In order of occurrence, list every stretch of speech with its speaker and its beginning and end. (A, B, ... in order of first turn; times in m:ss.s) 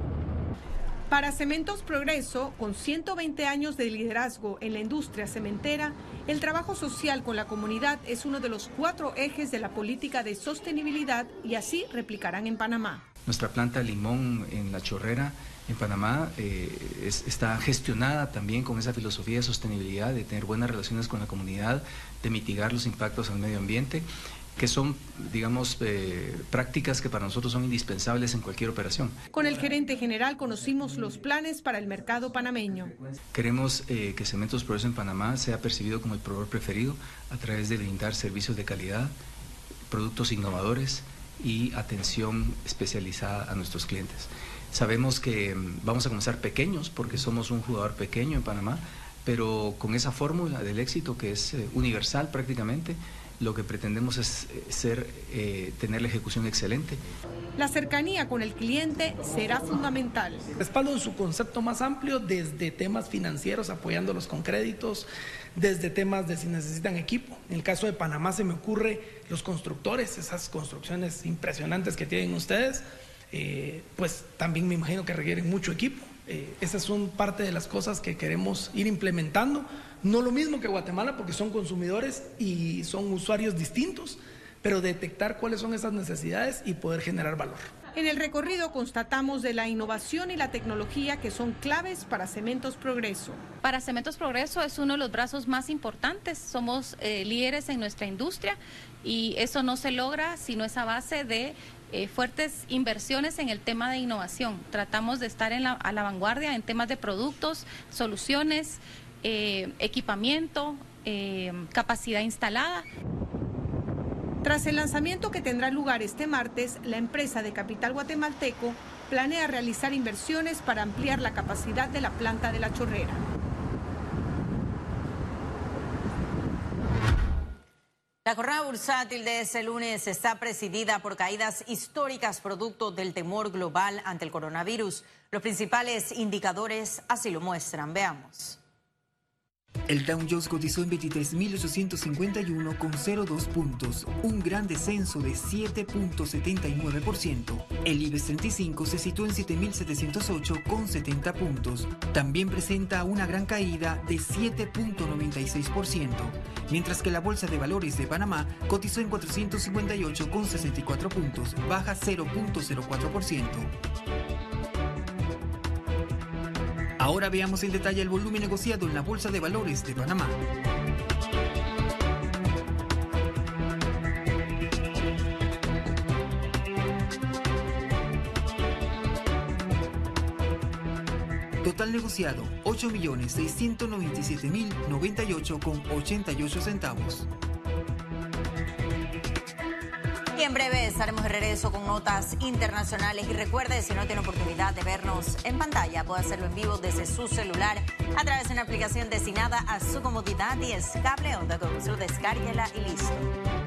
0:01.1-0:13.0 A
0:13.2-0:29.2 B
0:29.3-0:32.9 A
0:33.3-0:39.2 B
0:39.9-0:57.0 B
0:57.6-1:00.5 A
1:00.5-1:27.7 C
1:28.0-1:33.4 A
1:33.6-1:52.9 D
1:54.4-2:03.2 A
2:08.2-2:18.6 E
2:19.9-2:43.7 F
2:47.0-2:50.4 F
3:01.6-3:07.3 F
3:10.3-3:23.3 E